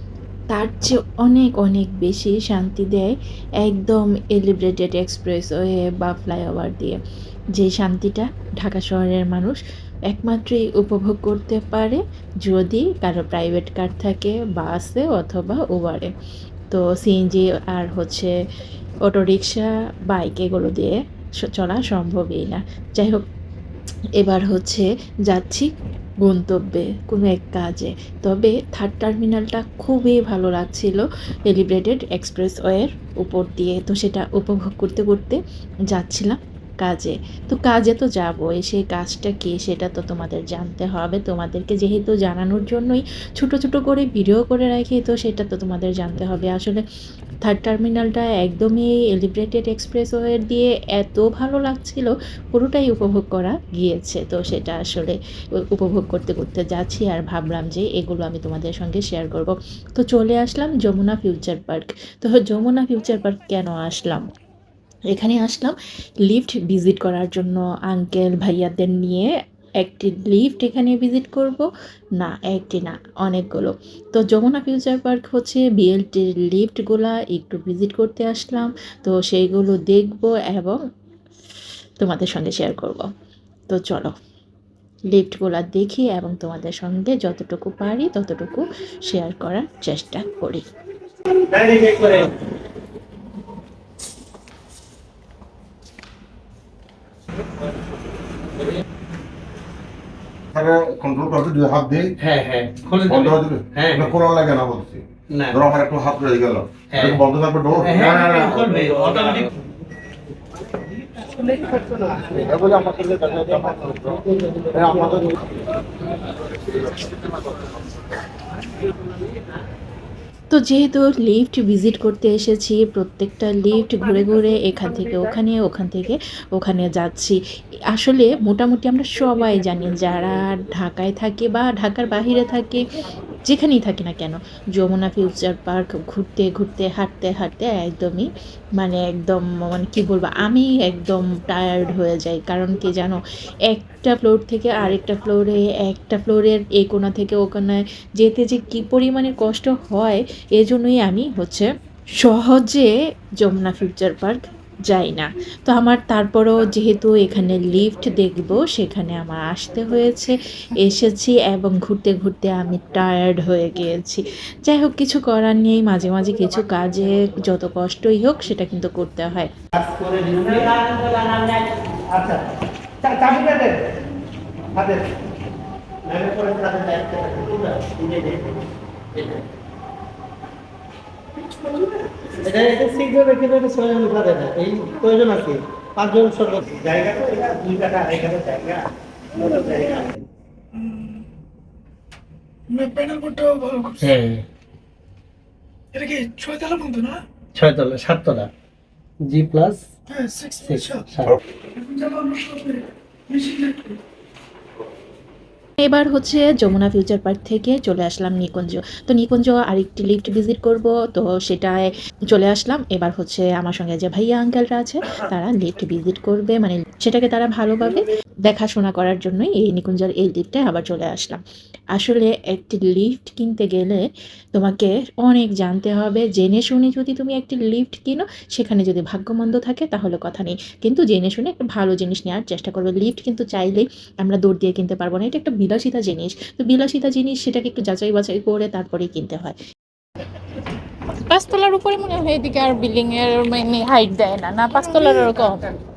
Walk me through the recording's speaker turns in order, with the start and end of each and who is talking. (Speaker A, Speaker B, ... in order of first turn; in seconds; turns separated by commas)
Speaker A: 0.5-7.0, Speaker A: 7.5-9.6, Speaker A: 10.1-16.1, Speaker A: 16.7-18.3, Speaker A: 19.0-23.2, Speaker A: 24.2-25.7, Speaker A: 26.2-35.4, Speaker A: 35.9-46.8, Speaker A: 47.4-55.2, Speaker A: 55.7-64.2, Speaker A: 65.1-65.7, Speaker A: 66.3-69.3, Speaker A: 69.8-71.7, Speaker A: 72.2-80.8, Speaker A: 82.0-83.0, Speaker A: 83.7-84.1, Speaker A: 85.1-90.6, Speaker B: 91.3-92.3, Speaker C: 100.5-102.2, Speaker B: 102.2-104.1, Speaker C: 103.0-109.0, Speaker B: 105.3-105.6, Speaker B: 106.9-107.2, Speaker B: 107.8-109.5, Speaker B: 111.0-115.3, Speaker C: 112.4-114.0, Speaker C: 114.9-115.2, Speaker A: 120.5-127.4, Speaker A: 127.9-132.8, Speaker A: 133.5-138.3, Speaker A: 138.8-151.7, Speaker A: 152.2-169.5, Speaker B: 169.7-172.5, Speaker B: 173.0-173.9, Speaker B: 174.7-175.1, Speaker B: 176.1-178.6, Speaker D: 181.5-181.8, Speaker B: 182.3-188.8, Speaker B: 189.3-190.2, Speaker D: 189.4-189.7, Speaker D: 190.7-191.2, Speaker D: 192.7-194.2, Speaker B: 194.0-194.4, Speaker D: 195.9-197.2, Speaker B: 197.5-198.5, Speaker B: 199.2-199.8, Speaker D: 200.1-201.1, Speaker B: 200.6-201.4, Speaker D: 201.7-204.0, Speaker A: 205.8-221.4, Speaker A: 221.9-239.6, Speaker E: 241.3-245.8, Speaker D: 244.8-245.4